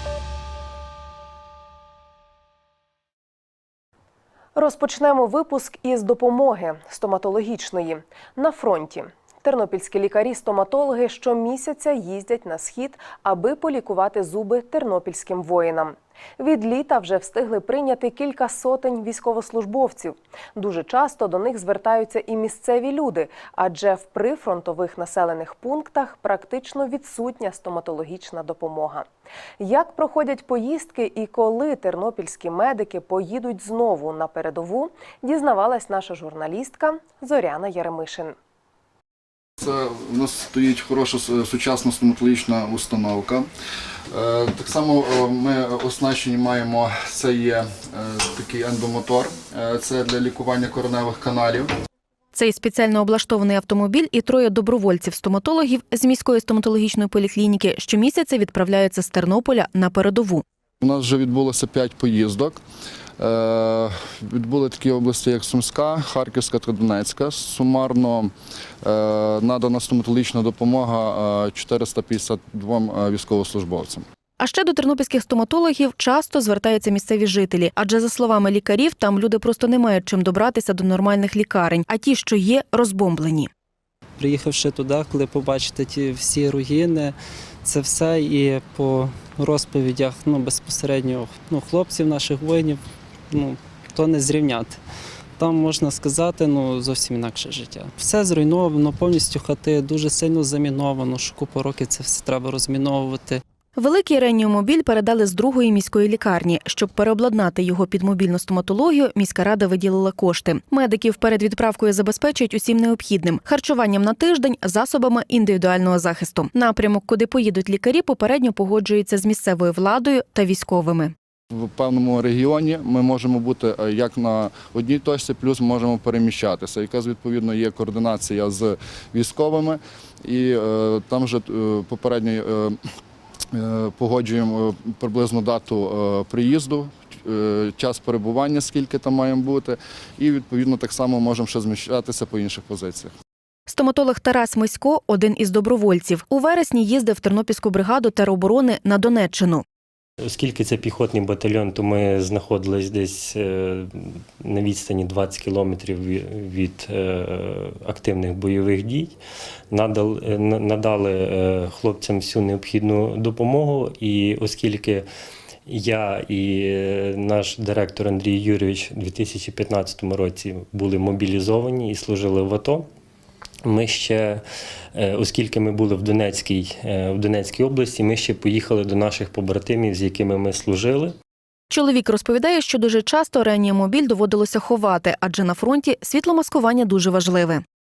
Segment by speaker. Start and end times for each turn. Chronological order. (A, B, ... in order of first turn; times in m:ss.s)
0:04.5-0:29.0 A
0:29.6-0:38.3 A
0:39.6-0:43.5 B
0:44.1-0:51.7 B
0:52.3-1:00.4 C
1:00.8-1:02.6 B
1:03.2-1:08.3 B
1:08.8-1:14.0 B
1:14.4-1:23.5 C
1:24.2-1:27.1 D
1:27.6-1:32.7 D
1:34.0-1:34.7 D
1:35.4-1:43.4 D
1:43.8-2:01.1 C
2:01.5-2:12.8 B
2:13.5-2:23.1 B
2:23.7-2:29.6 C
2:30.2-2:39.1 E
2:39.7-2:45.0 E
2:45.7-2:52.9 E
2:53.6-2:54.4 E
2:54.9-3:01.1 E
3:01.7-3:07.6 C